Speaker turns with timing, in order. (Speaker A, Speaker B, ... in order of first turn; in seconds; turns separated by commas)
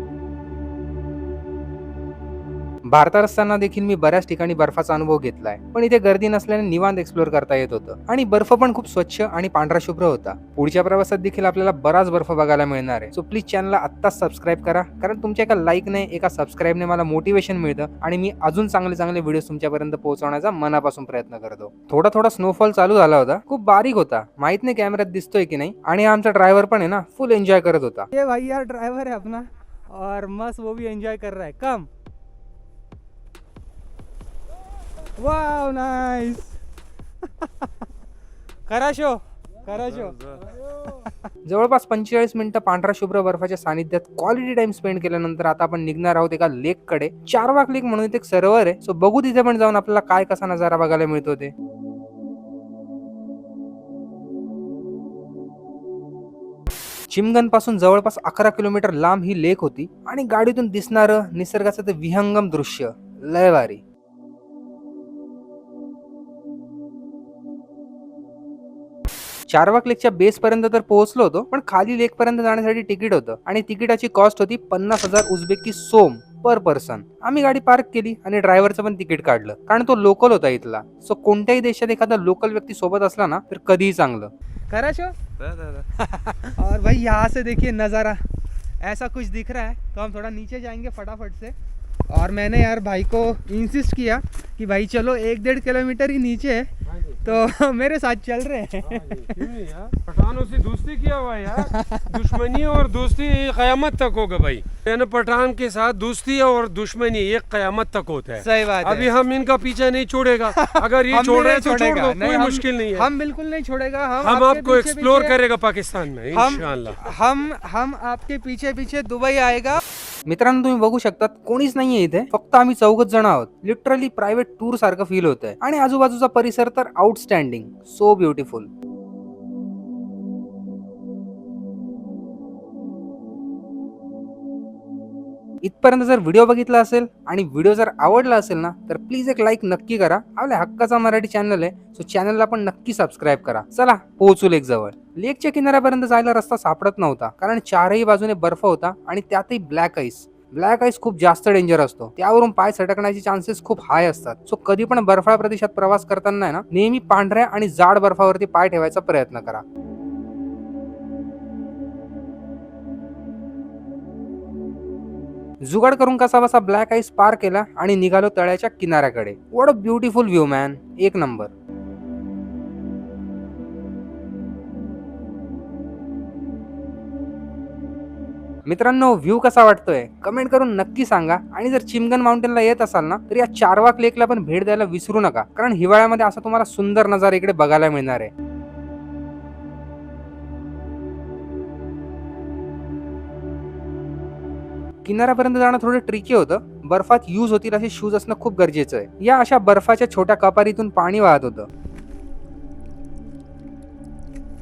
Speaker A: 2.8-28.1, Speaker B: 28.1-31.9, Speaker B: 35.2-36.6, Speaker B: 37.2-37.8, Speaker B: 38.7-41.1, Speaker A: 41.5-51.5, Speaker A: 57.1-63.8, Speaker A: 69.5-84.3, Speaker B: 84.7-88.2, Speaker B: 88.8-91.5, Speaker B: 92.1-96.7, Speaker C: 96.8-97.4, Speaker B: 97.2-99.2, Speaker C: 98.8-113.1, Speaker B: 101.6-102.0, Speaker B: 108.4-109.1, Speaker B: 110.5-115.3, Speaker C: 114.2-117.1, Speaker B: 116.3-119.8, Speaker A: 120.3-128.7, Speaker A: 135.6-159.6, Speaker A: 165.6-171.5, Speaker A: 178.7-188.3, Speaker A: 195.0-201.7